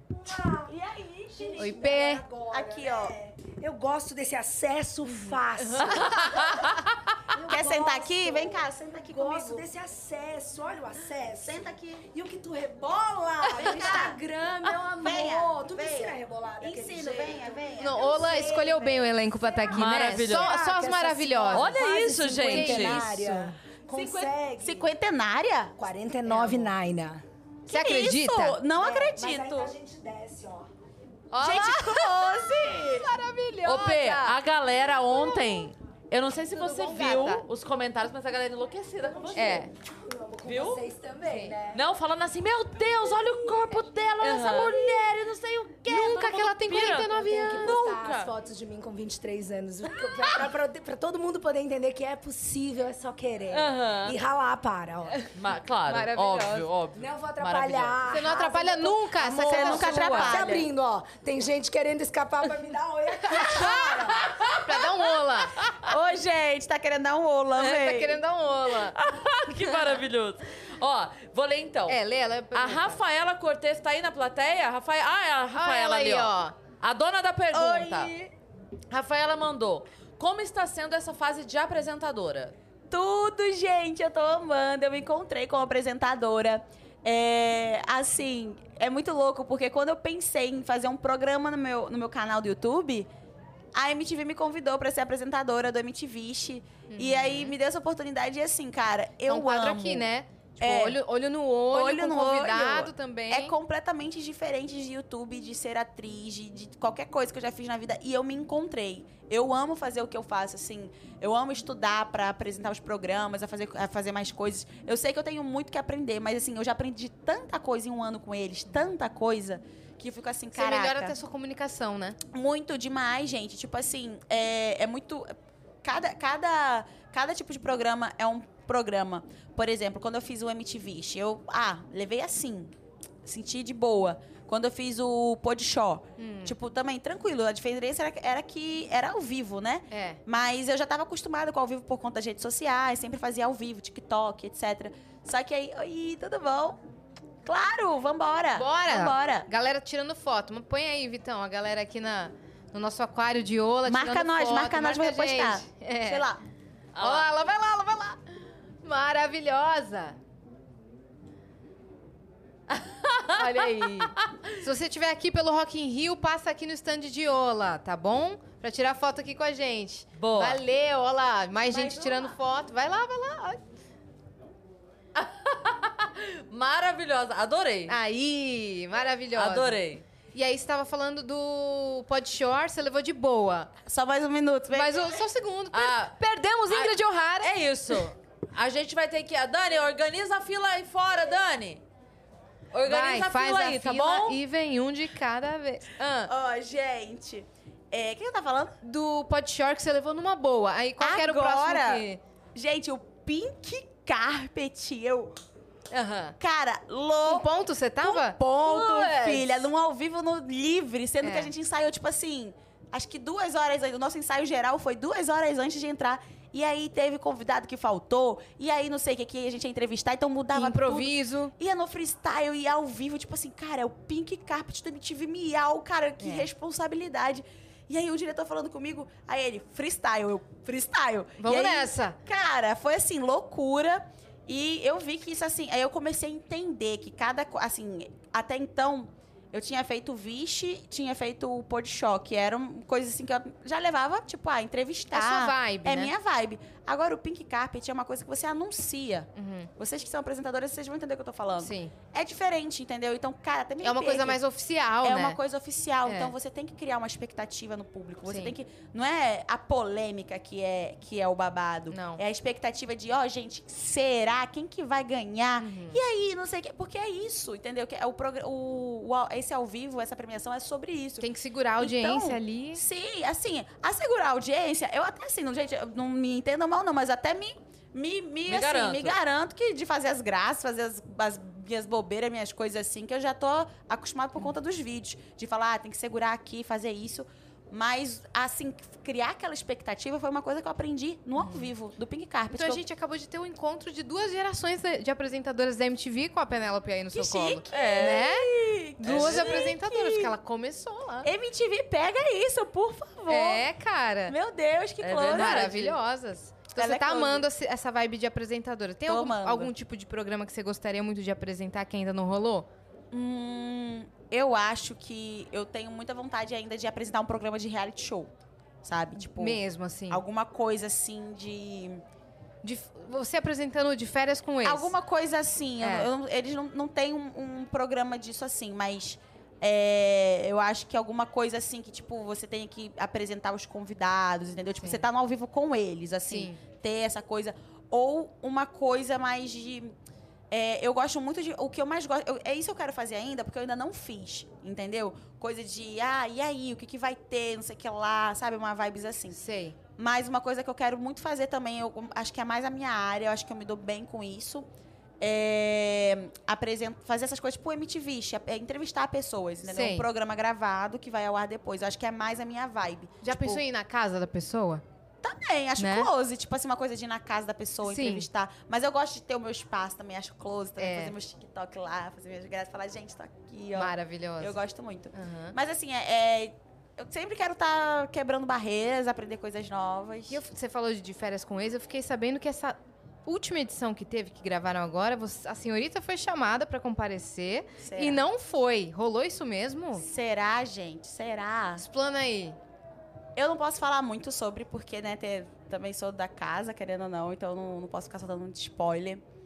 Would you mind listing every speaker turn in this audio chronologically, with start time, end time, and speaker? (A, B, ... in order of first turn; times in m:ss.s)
0:00.2-0:00.7 A
0:00.7-0:01.8 B
0:01.4-0:06.8 A
0:01.6-0:02.2 C
0:02.5-0:03.2 B
0:05.1-0:06.1 C
0:05.9-0:06.8 D
0:07.3-0:18.7 A
0:07.5-0:09.7 B
0:11.4-0:12.0 B
0:13.5-0:19.1 B
0:17.8-0:21.8 C
0:19.4-0:24.9 A
0:19.7-0:20.5 D
0:21.5-0:23.1 D
0:22.5-0:23.0 C
0:22.8-0:25.8 B
0:25.8-0:27.2 A
0:26.3-0:26.7 C
0:27.7-0:29.7 B
0:27.7-0:28.6 C
0:28.8-0:30.7 A
0:31.3-0:34.4 C
0:31.4-0:33.1 B
0:33.6-0:39.7 D
0:36.5-0:37.4 C
0:39.0-0:41.8 A
0:39.4-0:39.7 C
0:40.4-0:40.9 D
0:41.3-0:41.6 C
0:41.7-0:48.3 D
0:43.1-0:55.1 A
0:45.9-0:47.8 C
0:53.5-0:54.2 D
0:55.3-0:58.2 D
0:55.9-0:56.7 C
0:57.0-1:04.3 A
0:58.1-1:00.4 C
0:59.1-1:00.7 B
1:04.2-1:04.6 D
1:04.6-1:05.6 C
1:05.8-1:08.2 B
1:07.6-1:09.0 C
1:08.8-1:12.0 D
1:11.9-1:13.0 C
1:12.5-1:18.1 D
1:15.5-1:16.6 C
1:17.5-1:18.3 B
1:18.9-1:22.6 D
1:22.9-1:33.1 B
1:33.7-1:40.1 B
1:36.9-1:37.6 C
1:39.3-1:43.6 C
1:40.6-1:41.0 B
1:41.7-2:01.2 B
2:00.5-2:02.2 C
2:02.3-2:05.3 B
2:05.8-2:12.7 B
2:13.2-2:26.8 B
2:16.2-2:16.6 C
2:19.9-2:20.2 C
2:27.4-2:29.5 B
2:28.6-2:36.3 C
2:33.8-2:36.4 B
2:37.0-2:37.3 D
2:37.0-2:38.2 C
2:38.8-2:40.2 C
2:42.7-2:44.4 D
2:43.4-2:53.6 C
2:50.2-2:50.6 D
2:51.7-2:52.3 D
2:55.2-2:58.0 D
2:57.9-2:59.8 C
2:59.4-3:00.0 D
3:00.3-3:03.7 C
3:03.8-3:05.2 B
3:04.7-3:07.5 C
3:05.7-3:06.2 D
3:06.7-3:11.8 D
3:12.7-3:14.4 D
3:12.8-3:16.3 C
3:16.3-3:18.8 B
3:18.8-3:22.2 C
3:21.0-3:25.4 B
3:25.9-3:26.4 C
3:26.4-3:27.5 B
3:27.2-3:29.7 C
3:28.0-4:14.4 B
3:31.2-3:31.5 C
3:40.5-3:41.5 C
3:46.2-3:46.5 C
3:51.4-3:52.2 C
4:05.1-4:06.1 C
4:09.4-4:09.7 C
4:11.6-4:11.9 C
4:13.8-4:15.4 C
4:15.0-4:52.8 B
4:16.0-4:16.3 C
4:18.3-4:18.5 C
4:21.9-4:22.2 C
4:25.6-4:26.0 C
4:31.2-4:32.8 C
4:38.5-4:39.2 D
4:51.4-4:51.7 C
4:52.5-5:01.3 C
4:57.1-5:00.3 B
4:57.7-4:58.2 D
4:59.0-4:59.7 D
5:01.2-5:03.7 B
5:03.3-5:04.4 C
5:04.3-5:05.9 B
5:05.0-5:05.9 D
5:05.2-5:12.7 C
5:06.7-5:07.4 B
5:09.1-5:09.7 B
5:13.1-5:18.3 B
5:18.8-5:22.0 B
5:19.2-5:20.2 C
5:22.6-5:24.9 C
5:24.6-5:40.0 B
5:25.8-5:26.1 C
5:36.3-5:36.6 C
5:40.5-5:49.4 B
5:49.3-5:49.8 C
5:50.0-5:54.7 B
5:55.2-6:03.6 B
5:59.7-6:00.1 C
6:03.2-6:04.8 C
6:05.2-6:20.4 B
6:05.8-6:06.1 C
6:07.8-6:08.3 C
6:10.8-6:11.2 C
6:13.8-6:14.6 C
6:15.1-6:15.6 C
6:20.3-6:30.0 C
6:27.8-6:28.2 B
6:29.9-6:31.8 B
6:31.8-6:32.6 C
6:33.4-6:39.2 B